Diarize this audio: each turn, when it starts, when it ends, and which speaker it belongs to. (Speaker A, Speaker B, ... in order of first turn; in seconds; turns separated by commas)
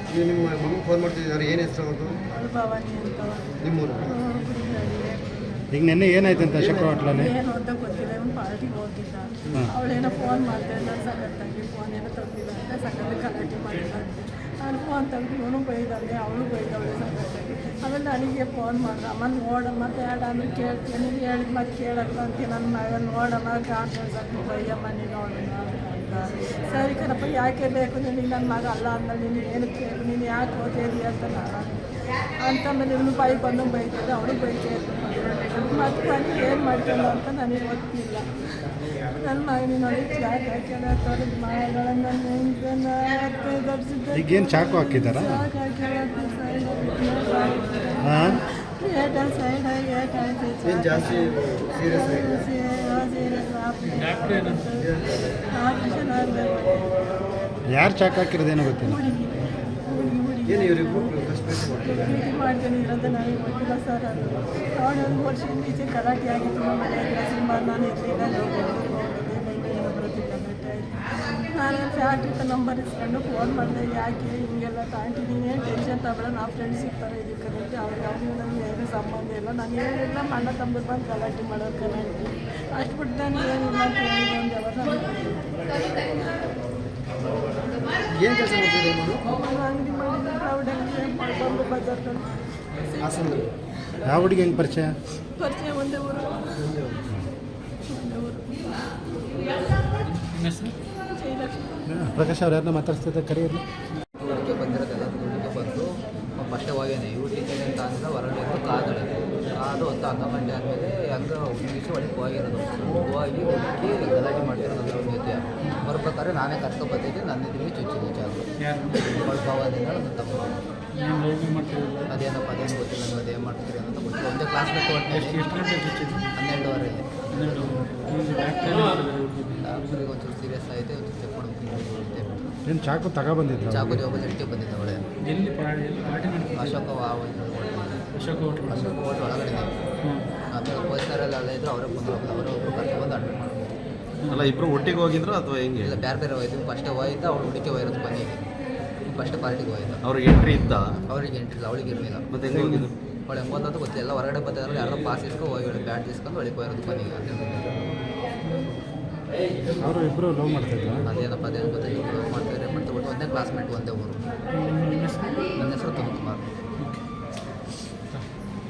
Speaker A: 0.1-2.2, Speaker B: 2.3-5.7, Speaker A: 3.6-4.1, Speaker C: 5.7-7.3, Speaker A: 6.5-6.9, Speaker B: 6.8-54.9, Speaker C: 44.1-45.5, Speaker C: 48.0-48.4, Speaker A: 50.6-52.5, Speaker D: 54.0-54.7, Speaker A: 54.8-55.2, Speaker B: 55.5-57.0, Speaker C: 57.7-59.0, Speaker B: 58.8-61.1, Speaker A: 60.5-62.2, Speaker B: 61.8-86.2, Speaker A: 88.0-89.2, Speaker B: 89.2-93.5, Speaker A: 93.0-93.5, Speaker C: 94.0-95.0, Speaker B: 95.3-96.7, Speaker A: 96.6-97.0, Speaker B: 97.8-98.6, Speaker A: 99.8-100.2, Speaker D: 100.2-100.8, Speaker B: 101.1-102.0, Speaker C: 101.9-103.6, Speaker E: 104.2-118.5, Speaker D: 118.6-119.2, Speaker E: 119.2-120.5, Speaker D: 121.0-122.1, Speaker E: 122.1-125.4, Speaker D: 125.1-126.3, Speaker E: 126.4-127.1, Speaker D: 127.3-129.8, Speaker E: 129.6-132.5, Speaker C: 132.7-134.0, Speaker E: 133.7-135.0, Speaker D: 135.2-136.8, Speaker E: 136.5-138.2, Speaker D: 138.2-138.9, Speaker E: 138.7-139.8, Speaker E: 140.5-143.8, Speaker F: 144.3-146.0, Speaker E: 145.8-148.4, Speaker E: 149.1-150.0, Speaker F: 150.0-151.0, Speaker E: 151.1-157.8, Speaker F: 152.3-152.9, Speaker C: 159.8-161.1, Speaker E: 161.1-164.2, Speaker D: 164.5-165.4, Speaker E: 165.6-166.5